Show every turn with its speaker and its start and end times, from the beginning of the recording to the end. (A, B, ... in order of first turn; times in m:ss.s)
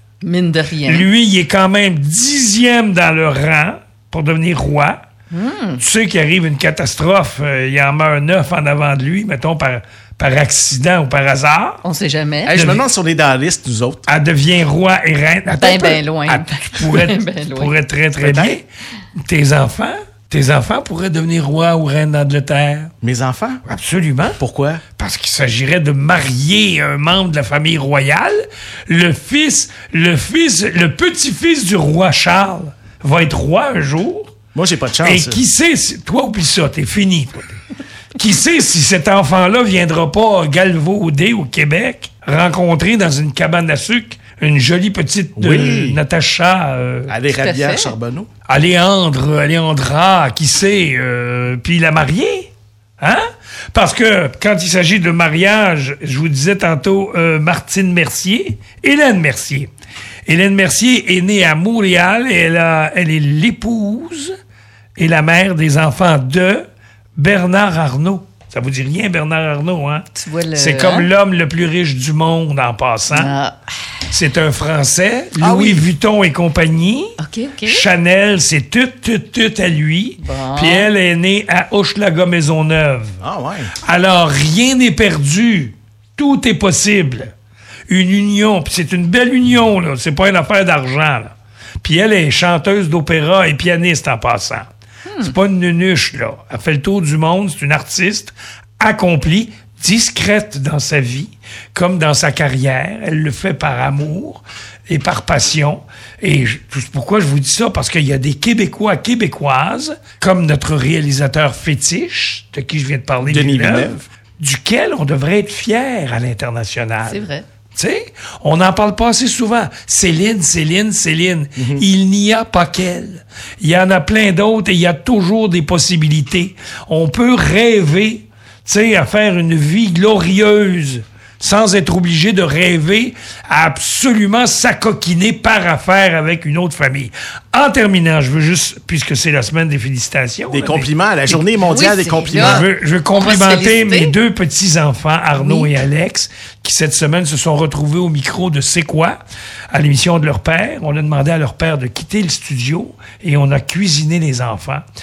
0:00.2-0:01.1 A
0:00.8-0:05.0 B
0:05.3-0:05.8 A
0:05.8-0:11.8 B
0:11.8-0:12.6 A
0:12.5-0:14.1 C
0:12.5-0:12.8 B
0:14.0-0:22.9 B
0:15.6-0:17.7 A
0:18.2-0:18.6 C
0:23.0-0:23.6 C
0:23.6-0:24.4 B
0:24.4-0:24.8 C
0:25.0-0:34.3 B
0:34.5-0:35.4 C
0:35.0-0:37.6 B
0:38.1-0:47.2 B
0:45.4-0:46.0 C
0:47.1-0:48.3 C
0:47.4-0:47.9 A
0:48.5-0:53.2 B
0:53.7-0:59.7 B
1:00.2-1:04.3 B
1:05.0-1:06.6 B
1:07.2-1:13.3 B
1:10.1-1:11.1 A
1:13.1-1:13.5 A
1:14.1-1:23.2 B
1:15.4-1:15.9 C
1:17.2-1:17.8 A
1:20.2-1:20.9 A
1:23.2-1:23.7 C
1:23.8-1:27.3 B
1:27.9-2:20.9 B
1:35.1-1:35.3 A
1:53.2-1:54.0 C
1:57.0-1:57.4 A
2:01.6-2:01.8 C
2:20.5-2:22.7 C
2:21.7-2:24.2 A
2:22.3-2:29.2 B
2:25.4-2:25.7 A
2:29.7-2:34.8 B